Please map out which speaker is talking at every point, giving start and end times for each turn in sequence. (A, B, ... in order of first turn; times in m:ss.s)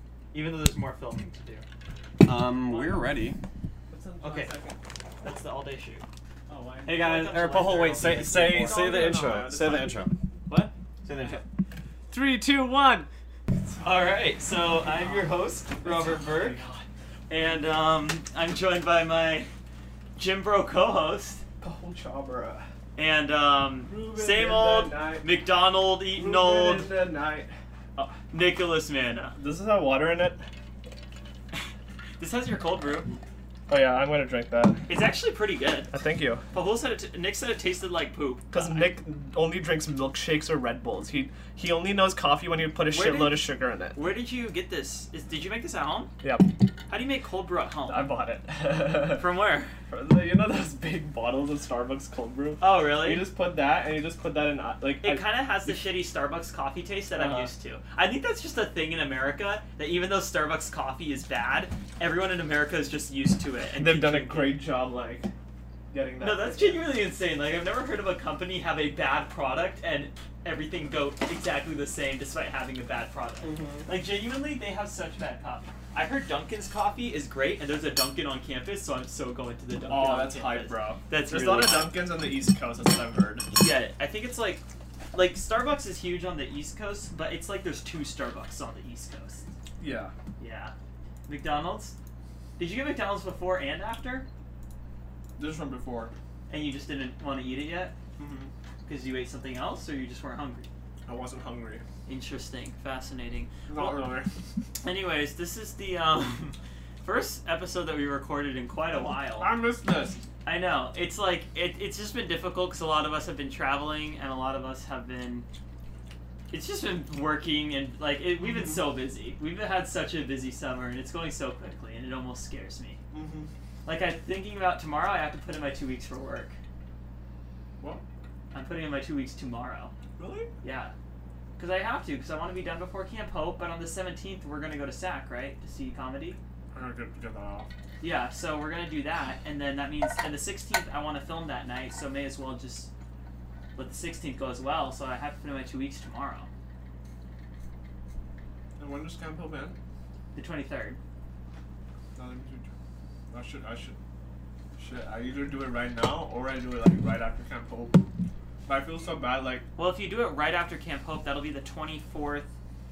0:00.3-0:01.6 A
0:02.2-0:03.4 B
0:02.7-0:03.0 A
0:03.9-0:04.8 C
0:04.2-0:04.6 A
0:05.2-0:06.0 A
0:06.5-0:07.0 C
0:06.8-0:10.1 B
0:06.9-0:08.9 A
0:08.0-0:10.0 C
0:10.5-0:11.4 A
0:11.1-0:11.4 B
0:12.1-0:14.2 C
0:13.8-0:16.6 A
0:14.8-0:16.8 C
0:17.3-0:19.5 A
0:20.2-0:21.4 A
0:21.6-0:22.7 C
0:23.0-0:26.9 A
0:23.9-0:25.3 C
0:26.1-0:28.1 C
0:28.3-0:29.4 A
0:29.4-0:30.4 C
0:32.2-0:33.1 A
0:33.7-0:34.8 C
0:34.9-0:35.9 A
0:35.9-0:36.4 C
0:36.5-0:38.9 A
0:38.5-0:44.0 C
0:42.9-0:43.4 A
0:43.9-0:46.1 A
0:46.2-0:46.6 C
0:46.9-0:48.1 A
0:47.9-0:49.3 C
0:49.0-0:49.7 A
0:49.9-0:55.8 C
0:52.6-0:53.2 A
0:55.0-1:04.6 A
0:57.1-0:57.5 C
1:03.8-1:05.3 C
1:05.9-1:06.9 C
1:06.2-1:22.0 A
1:13.4-1:13.9 C
1:19.9-1:23.5 C
1:23.5-1:29.4 A
1:29.8-1:30.1 C
1:30.4-1:30.7 A
1:31.2-1:32.0 A
1:32.6-1:34.2 A
1:35.4-1:36.1 C
1:36.5-1:37.9 A
1:38.2-1:38.5 C
1:38.8-1:40.7 A
1:41.0-1:41.8 C
1:42.0-1:44.1 A
1:43.7-1:44.3 C
1:44.8-1:49.5 A
1:49.4-1:50.2 C
1:50.4-1:55.4 A
1:56.5-2:03.0 A
1:58.4-1:58.8 C
2:03.1-2:03.5 C
2:03.8-2:06.6 A
2:08.5-2:09.9 A
2:10.2-2:10.5 C
2:10.6-2:10.9 A
2:11.6-2:16.4 A
2:16.7-2:17.7 C
2:18.0-2:22.9 A
2:23.8-2:26.5 A
2:28.8-2:29.8 C
2:30.3-2:31.0 A
2:32.2-2:32.7 C
2:33.3-2:34.0 C
2:34.8-2:38.0 C
2:38.6-2:39.6 C
2:39.8-2:42.5 A